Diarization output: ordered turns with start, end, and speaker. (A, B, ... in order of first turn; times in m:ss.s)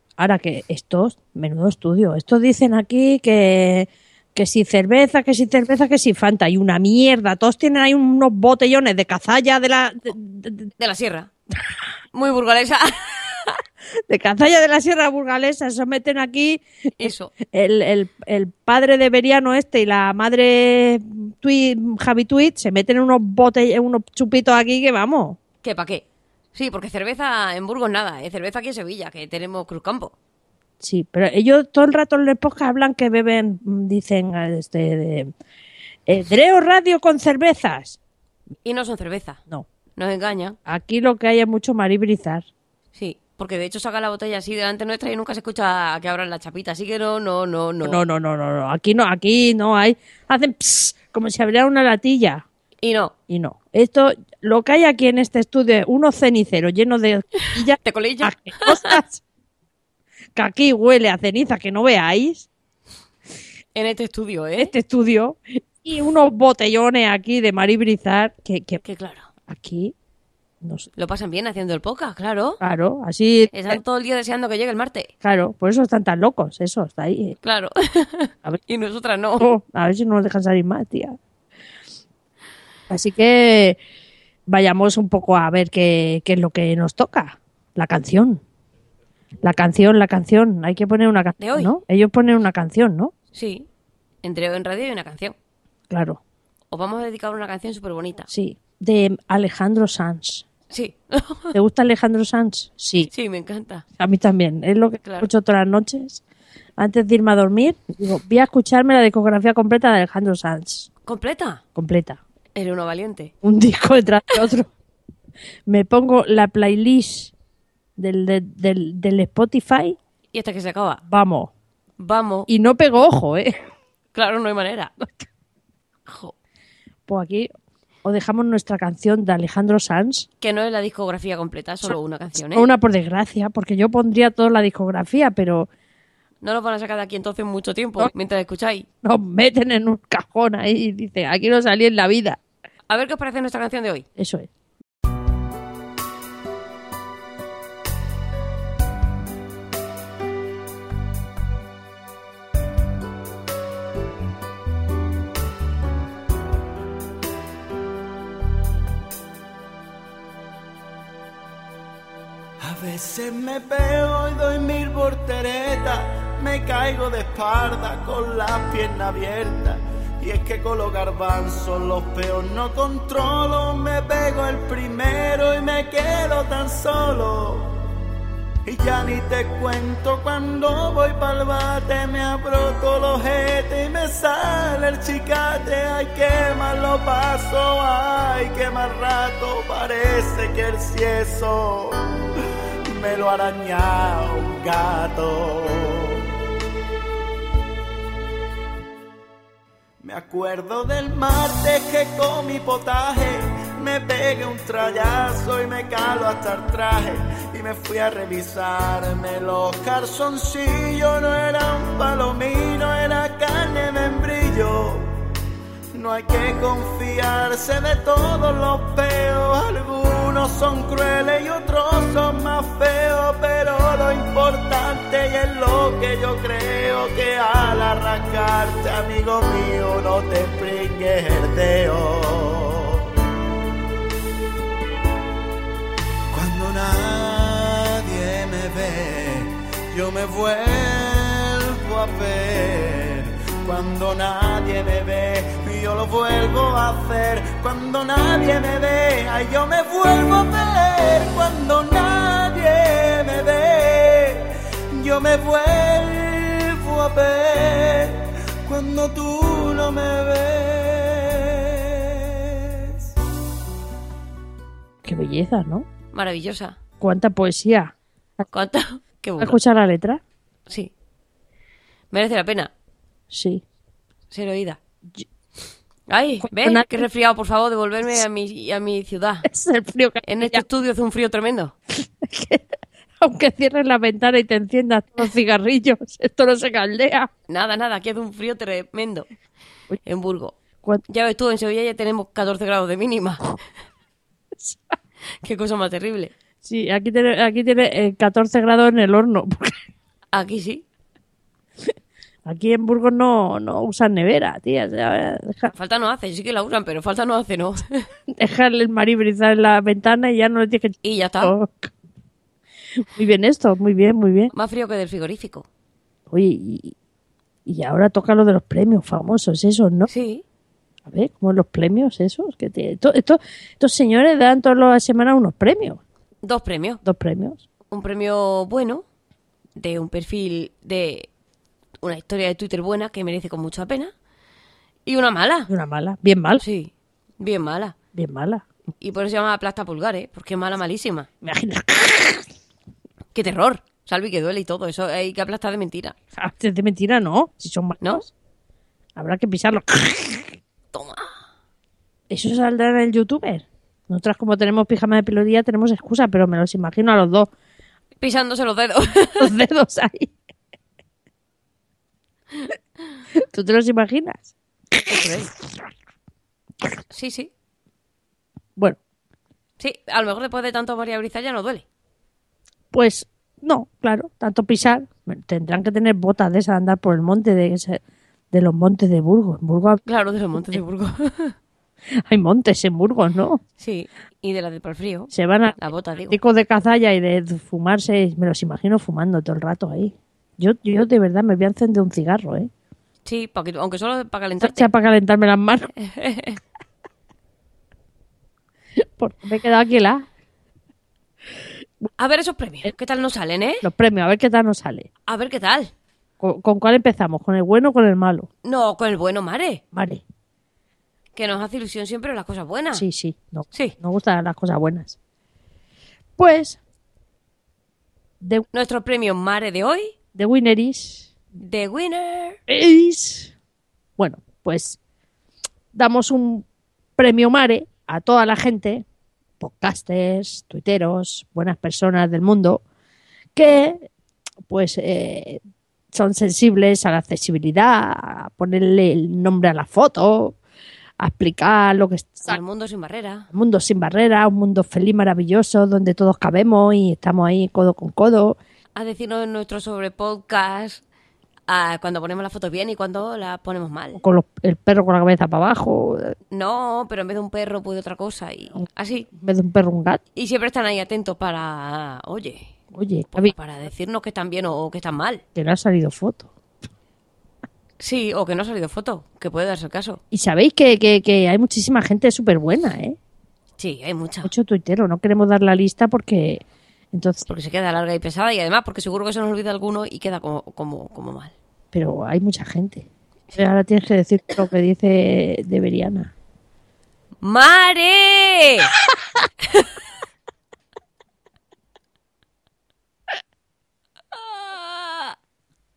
0:00.2-0:10.7 A
0:10.8-0:11.3 B
0:12.1-0:13.6 B
0:14.1-0:25.4 A
0:17.0-0:17.3 B
0:25.6-0:26.0 B
0:26.5-0:30.1 B
0:30.8-0:35.3 A
0:36.1-0:38.0 A
0:38.6-0:39.4 B
0:40.0-0:40.6 B
0:40.7-0:42.4 A
0:42.9-0:48.0 B
0:47.8-0:52.4 A
0:52.8-0:53.1 B
0:53.3-0:59.2 A
0:57.5-0:59.0 B
1:00.4-1:02.5 A
1:03.7-1:04.7 B
1:04.6-1:08.8 A
1:08.8-1:09.3 B
1:09.5-1:09.9 A
1:10.6-1:10.9 A
1:11.0-1:12.6 B
1:12.6-1:13.8 A
1:13.5-1:15.1 B
1:15.2-1:17.4 A
1:17.4-1:19.5 B
1:19.4-1:21.2 A
1:22.9-1:23.8 A
1:24.5-1:28.4 A
1:29.4-1:33.1 A
1:31.4-1:31.7 B
1:33.3-1:33.7 B
1:34.2-1:35.4 B
1:35.9-1:36.2 A
1:36.7-1:38.3 B
1:38.3-1:40.4 A
1:40.7-1:41.6 B
1:41.5-1:43.1 A
1:43.1-1:43.8 B
1:44.0-1:46.2 A
1:45.0-1:45.3 B
1:46.8-1:50.9 A
1:51.1-1:51.6 B
1:51.7-1:52.2 A
1:52.6-1:53.3 B
1:53.4-1:54.7 A
1:55.7-1:57.3 A
1:58.0-2:00.0 A
2:00.3-2:01.0 B
2:01.0-2:01.5 A
2:02.0-2:02.5 B
2:02.5-2:03.6 A
2:04.1-2:05.0 B
2:06.1-2:06.3 B
2:07.1-2:07.5 A
2:08.0-2:10.3 A
2:10.4-2:12.7 B
2:11.9-2:15.7 A
2:16.4-2:18.8 B
2:19.0-2:22.4 A
2:22.9-2:24.0 B
2:24.2-2:24.5 A
2:42.6-2:57.8 C
2:58.6-3:12.2 C
3:12.9-3:16.3 C
3:20.0-3:35.1 C
3:35.9-3:53.1 C
3:56.3-4:23.0 C
4:25.0-4:25.9 A
4:26.1-4:26.8 B
4:27.0-4:28.4 A
4:28.5-4:29.6 B
4:29.4-4:30.2 A
4:32.1-4:32.7 B
4:33.3-4:33.6 A
4:34.3-4:34.8 B
4:36.1-4:39.5 B
4:36.4-4:37.0 A
4:39.4-4:40.6 A
4:40.2-4:41.7 B
4:42.0-4:47.3 A
4:47.5-4:49.3 B
4:50.0-4:50.5 B
4:51.1-4:53.6 B
4:54.6-4:54.9 A
4:55.4-4:56.3 B
4:56.6-4:59.8 A
5:00.3-5:00.8 B
5:02.4-5:05.7 A
5:05.7-5:08.1 B
5:08.3-5:11.9 A
5:11.0-5:11.5 B
5:13.0-5:14.5 A
5:14.5-5:15.6 B
5:16.3-5:16.9 A
5:17.6-5:20.1 A
5:20.1-5:20.4 B
5:21.0-5:26.0 A
5:26.4-5:27.0 B
5:27.0-5:27.6 A
5:27.9-5:29.0 B
5:29.8-5:31.3 B
5:32.0-5:34.1 B
5:35.1-5:35.7 B
5:35.7-5:36.6 A
5:36.6-5:38.0 B
5:38.1-5:38.6 A
5:39.0-5:41.3 B
5:41.4-5:42.5 A
5:43.3-5:46.2 B
5:46.4-5:48.2 A
5:49.2-5:50.6 A
5:50.9-5:51.3 B
5:52.3-5:57.5 A
5:58.2-5:59.5 B
5:59.4-6:00.3 A
6:03.3-6:05.5 A
6:07.1-6:07.5 B
6:09.8-6:11.8 B
6:12.9-6:18.0 A
6:18.5-6:20.0 A
6:20.1-6:21.5 B
6:22.2-6:23.6 A
6:23.8-6:26.4 B
6:25.3-6:25.8 A
6:26.3-6:32.7 A
6:33.2-6:34.9 B
6:34.6-6:35.9 A
6:36.0-6:36.6 B
6:39.0-6:40.2 A
6:42.2-6:43.8 B
6:43.8-6:45.1 A
6:45.3-6:45.9 B
6:46.4-6:48.5 A
6:48.6-6:49.8 B
6:49.9-6:50.2 A
6:51.3-6:53.0 B
6:52.9-6:55.2 A
6:56.4-6:56.8 A
6:58.4-6:58.6 A
6:58.7-7:00.1 B
7:00.3-7:01.3 A
7:01.6-7:02.6 B
7:02.7-7:03.5 A
7:04.2-7:05.0 A
7:05.9-7:06.6 A
7:07.2-7:09.0 A
7:09.6-7:12.8 A
7:13.6-7:14.1 A
7:14.7-7:15.6 A
7:16.1-7:20.6 A
7:21.2-7:22.6 A
7:22.5-7:23.5 B
7:23.5-7:28.6 A
7:29.0-7:31.0 B
7:31.7-7:34.2 B
7:34.2-7:36.4 A
7:36.5-7:39.3 B
7:39.3-7:40.2 A
7:40.4-7:42.7 B
7:42.9-7:43.5 A
7:43.3-7:45.4 B
7:45.6-7:46.5 A
7:48.0-7:50.2 B
7:50.3-7:53.2 A
7:53.8-7:54.5 B
7:54.4-7:57.5 A
7:57.5-8:01.5 B
8:01.9-8:06.3 A
8:07.4-8:08.9 B
8:14.3-8:15.3 B